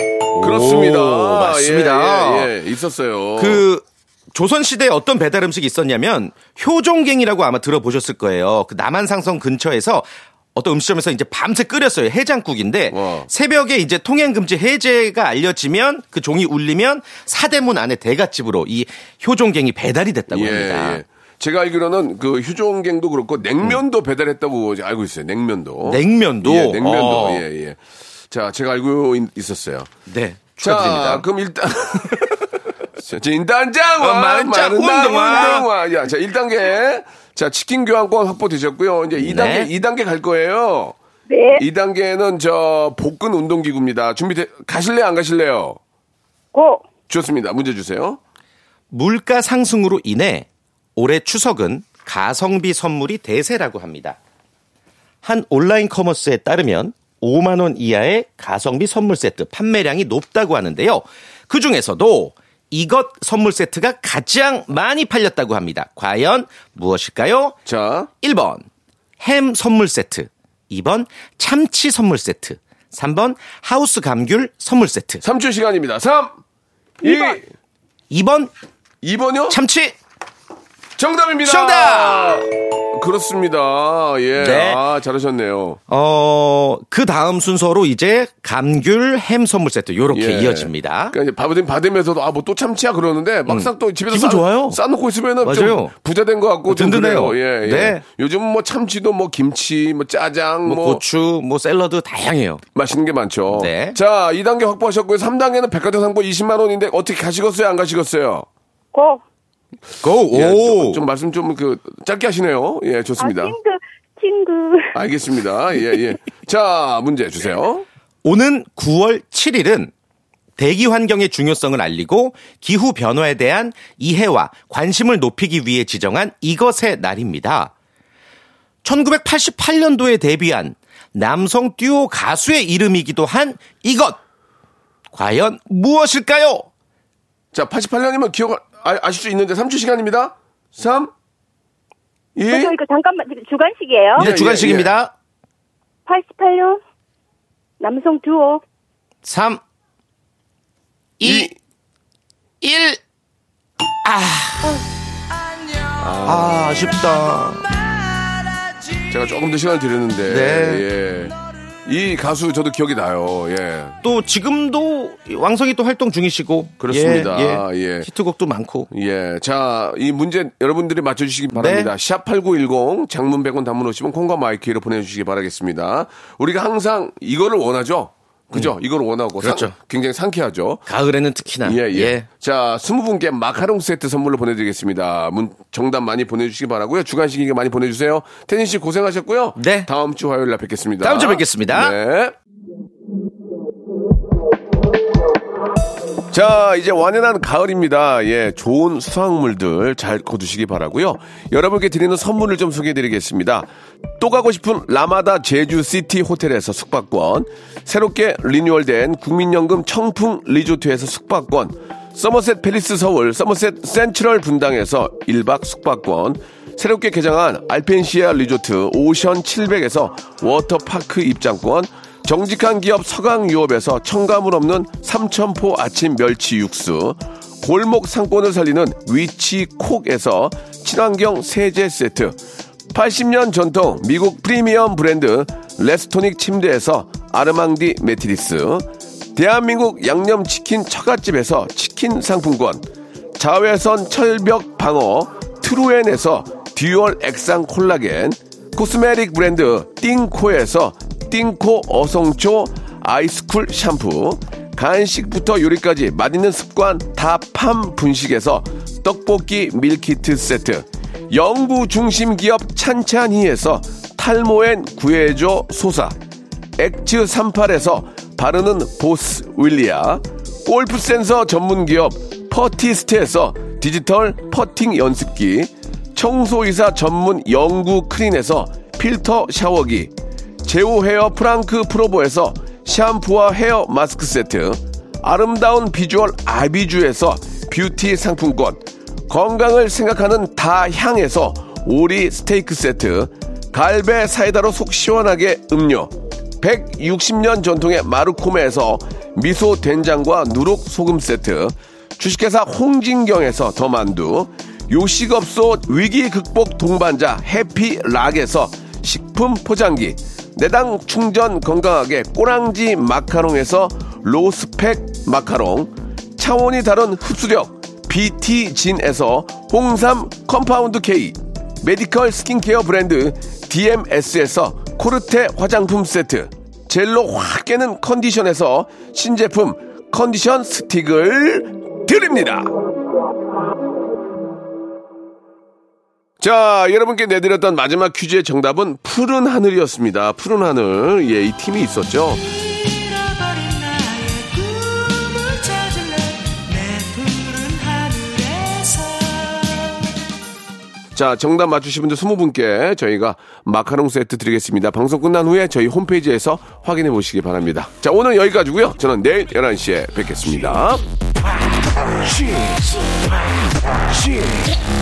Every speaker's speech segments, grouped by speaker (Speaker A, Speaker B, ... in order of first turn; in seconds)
Speaker A: 0.3-2.5, 3.4-21.0, 25.8-27.4, 30.1-31.3, 34.0-35.7, 39.2-39.7, 48.9-54.2, 55.2-67.6, 68.2-68.7, 69.2-75.2, 78.1-78.5, 79.5-80.0, 81.4-82.4, 84.4-84.8, 85.9-91.2, 93.5-94.8, 95.4-96.0, 96.7-98.0, 100.7-102.6, 103.5-104.0, 110.0-111.0, 118.2-119.9, 120.6-127.7, 128.8-134.2, 135.1-136.7, 144.2-145.1, 149.2-149.6, 151.2-151.5, 152.6-153.0, 154.0-154.8, 156.2-157.7, 160.3-160.8, 164.0-168.9, 171.5-171.9, 179.4-179.7, 180.9-182.3, 189.6-189.9, 191.0-191.9
Speaker B: 0.4-3.6, 12.9-13.3, 20.3-29.9, 30.6-32.5, 33.0-41.0, 41.6-45.8, 47.1-48.2, 67.7-68.1, 75.2-76.4, 77.0-77.5, 79.0-79.6, 81.0-85.8, 90.1-101.0, 102.8-108.5, 110.3-113.5, 114.9-117.9, 137.5-141.1, 142.4-142.8, 144.2-144.9, 151.2-151.5, 156.0-156.9, 159.1-164.0, 166.8-168.1, 168.9-180.9, 181.6-192.3, 196.3-232.4, 232.9-242.8, 243.4-266.2, 266.8-332.7, 336.4-342.5, 351.1-361.1, 362.3-362.8, 364.1-364.6
Speaker C: 41.3-41.6, 46.5-46.9, 108.9-109.2, 113.2-115.0, 142.5-144.3, 146.1-146.8, 147.8-148.6